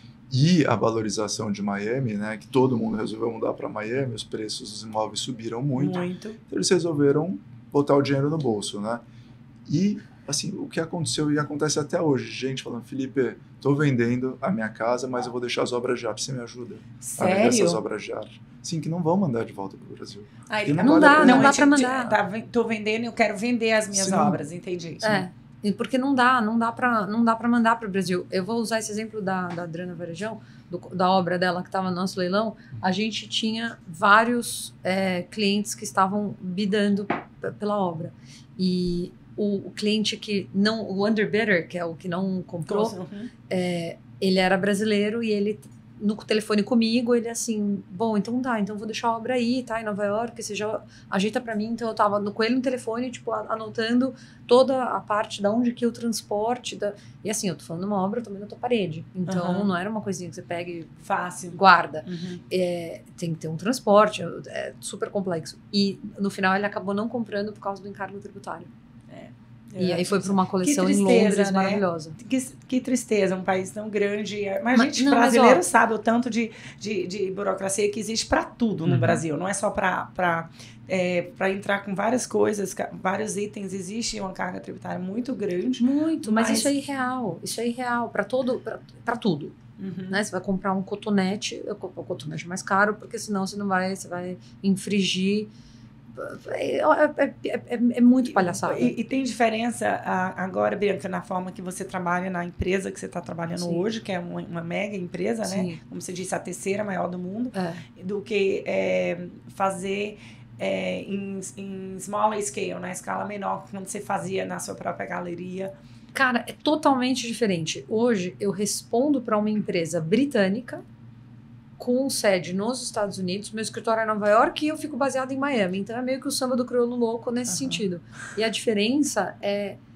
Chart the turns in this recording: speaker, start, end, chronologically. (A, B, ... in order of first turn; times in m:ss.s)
0:00.3-0:09.0 A
0:05.8-0:06.4 B
0:09.6-0:21.6 A
0:17.0-0:17.8 B
0:20.5-0:25.2 B
0:20.8-0:22.2 C
0:23.9-0:24.4 A
0:25.0-0:43.0 C
0:42.7-0:43.3 B
0:43.5-1:01.0 C
0:59.3-0:59.7 B
1:01.0-1:02.4 B
1:01.5-1:08.7 C
1:09.1-1:26.7 B
1:09.8-1:12.2 C
1:14.7-1:15.6 C
1:18.9-1:19.2 A
1:25.8-1:29.6 C
1:29.8-1:30.2 B
1:30.1-1:35.5 C
1:36.2-1:39.0 C
1:38.2-1:55.7 B
1:43.5-1:43.8 C
1:45.4-1:45.8 C
1:47.5-1:47.8 C
1:56.1-2:00.8 C
2:01.8-2:09.8 C
2:07.5-2:07.8 B